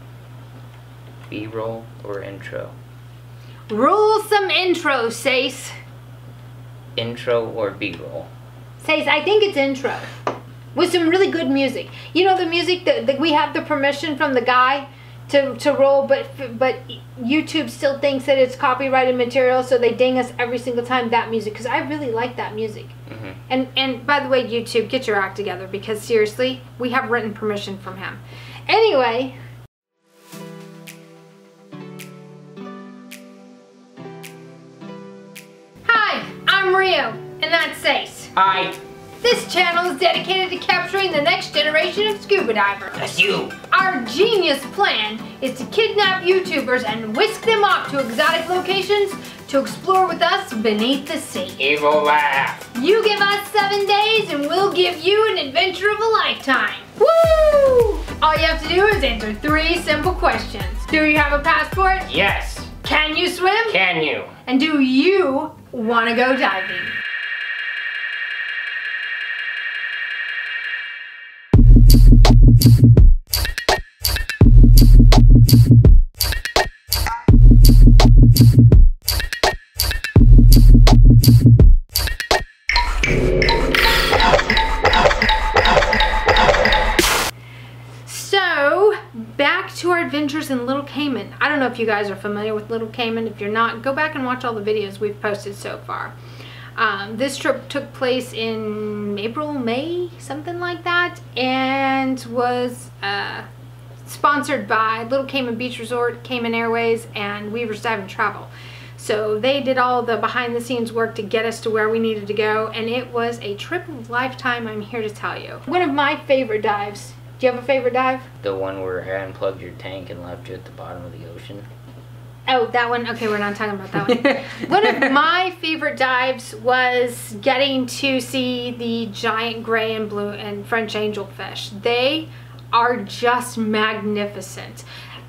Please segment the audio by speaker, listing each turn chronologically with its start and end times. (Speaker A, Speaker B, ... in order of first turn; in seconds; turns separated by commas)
Speaker A: 1.3-2.7, Speaker B: 3.7-5.7, Speaker A: 7.0-8.3, Speaker B: 8.8-10.1, Speaker B: 10.7-23.0, Speaker A: 23.1-23.4, Speaker B: 23.5-29.4, Speaker B: 35.8-38.3, Speaker A: 38.4-38.8, Speaker B: 39.2-51.6, Speaker A: 43.0-43.5, Speaker A: 51.6-52.6, Speaker B: 52.7-62.1, Speaker A: 62.1-62.7, Speaker B: 62.8-63.8, Speaker A: 63.7-64.3, Speaker B: 64.5-67.0, Speaker B: 88.0-96.2, Speaker B: 96.8-103.5, Speaker B: 104.0-118.3, Speaker A: 118.4-121.7, Speaker B: 122.5-134.8, Speaker A: 124.3-125.1